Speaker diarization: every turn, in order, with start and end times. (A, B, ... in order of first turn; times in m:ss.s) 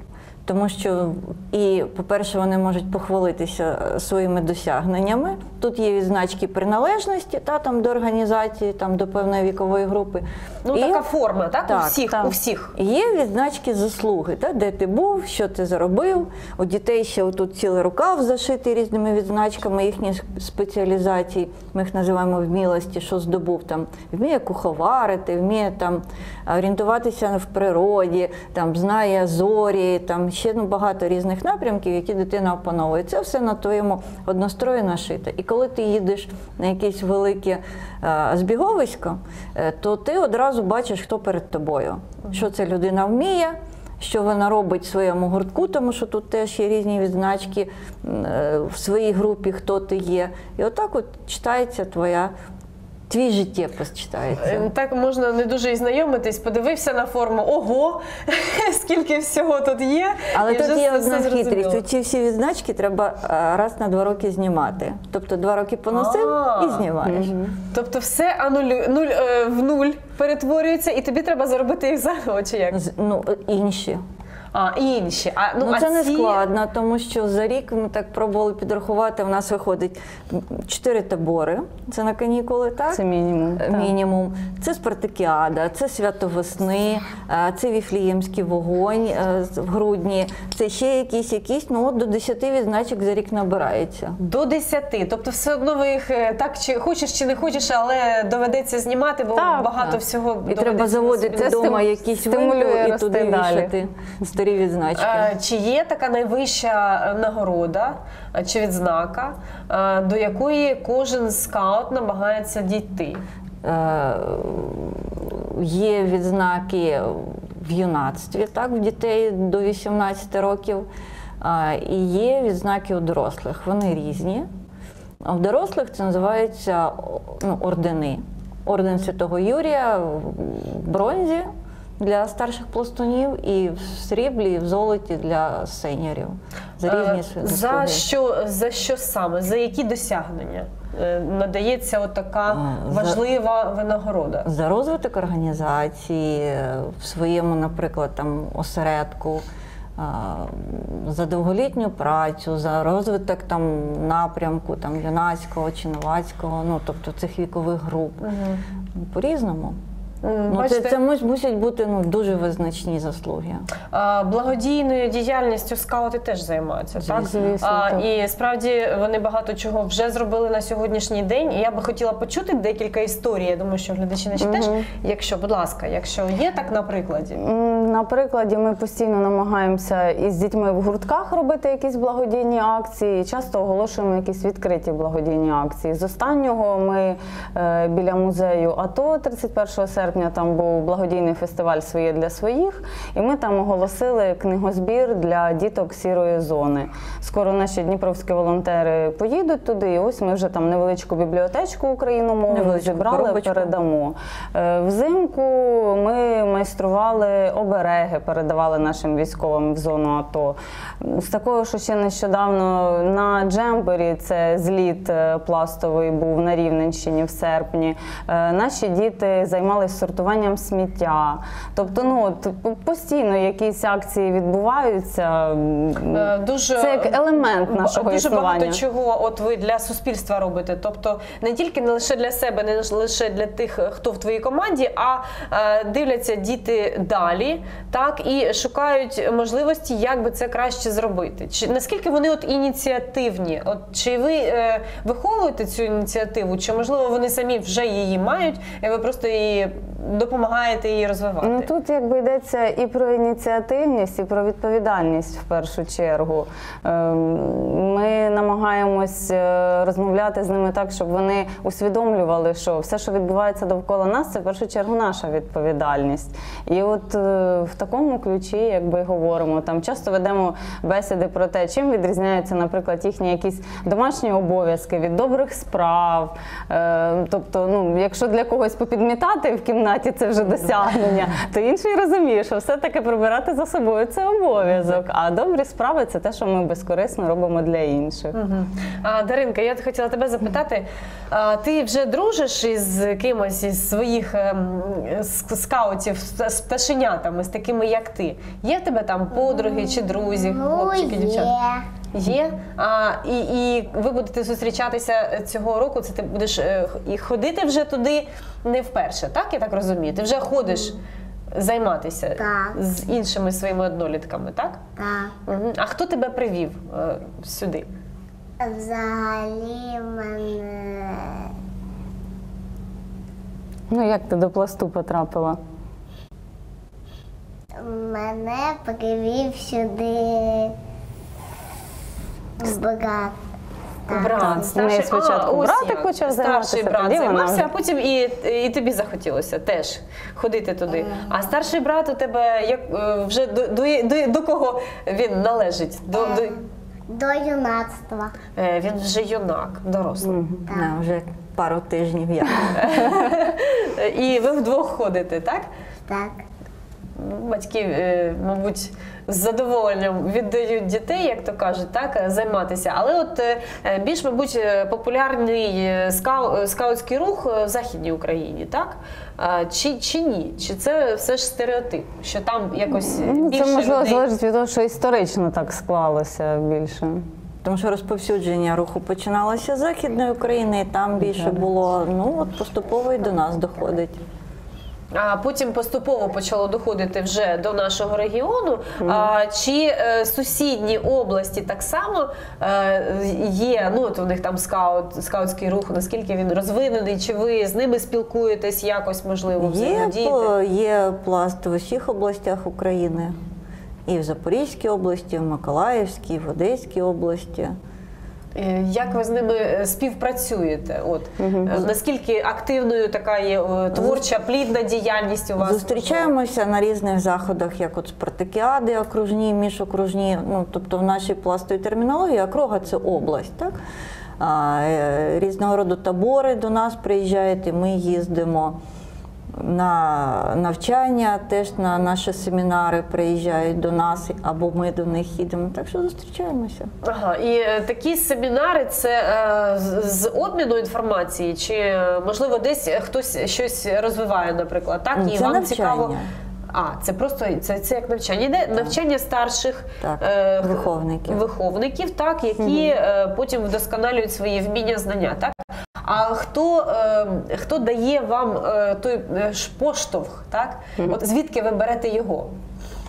0:00.4-0:11.0 A
0:10.6-0:12.7 B
0:11.6-0:12.1 A
0:12.7-0:52.3 A
0:53.1-0:54.7 A
0:54.4-1:01.8 B
1:00.3-1:07.4 A
1:05.9-1:06.8 B
1:07.0-1:07.5 C
1:07.7-1:12.8 B
1:12.7-1:14.0 A
1:14.5-1:16.4 B
1:15.6-1:23.0 A
1:22.9-1:23.9 C
1:23.5-1:34.2 A
1:34.2-1:41.7 B
1:39.4-1:40.0 C
1:40.5-1:45.3 A
1:41.3-1:43.7 C
1:45.0-1:53.2 B
1:53.6-2:00.9 A
2:01.4-2:04.5 A
2:05.2-2:11.5 A
2:12.0-2:18.0 A
2:16.8-2:24.5 B
2:22.5-2:23.2 A
2:24.4-2:29.4 A
2:30.0-2:38.2 A
2:38.2-2:38.6 B
2:39.0-2:39.8 A
2:40.2-2:41.0 B
2:40.5-2:43.6 A
2:43.9-2:57.4 B
2:47.0-2:47.6 A
2:47.2-2:48.0 C
2:54.4-2:54.8 C
2:57.4-3:48.8 C
3:22.5-3:23.7 A
3:46.1-4:11.7 B
4:11.4-4:48.3 C
4:48.3-5:01.5 B
4:59.4-5:01.8 D
5:02.1-5:11.0 B
5:11.5-5:14.8 B
5:12.4-5:12.8 D
5:15.0-5:15.3 D
5:15.5-5:17.9 B
5:18.6-5:21.5 D
5:23.9-5:25.6 C
5:27.8-5:30.7 D
5:32.6-5:33.4 D
5:34.1-5:34.6 D
5:34.1-5:46.6 B
5:34.3-5:37.7 C
5:41.0-5:41.2 D
5:46.2-5:46.5 D
5:47.1-5:48.3 D
5:48.6-5:50.4 B
5:50.2-5:50.6 C
5:50.7-5:50.9 D
5:50.7-5:53.2 A
5:52.8-5:55.7 B
5:56.1-5:56.4 D
5:57.2-6:14.2 B
6:13.0-6:17.2 C
6:17.6-6:24.2 A
6:25.1-6:40.5 B
6:29.0-6:29.3 C
6:39.6-6:43.3 A
6:44.1-6:47.7 A
6:48.5-6:56.3 B
6:51.4-6:51.8 C
6:53.9-6:54.2 A
6:55.6-7:03.8 A
7:04.4-7:08.8 A
7:09.6-7:16.9 A
7:17.0-7:26.1 B
7:25.2-7:26.2 A
7:26.7-7:42.5 B
7:30.0-7:31.4 A
7:32.6-7:32.9 C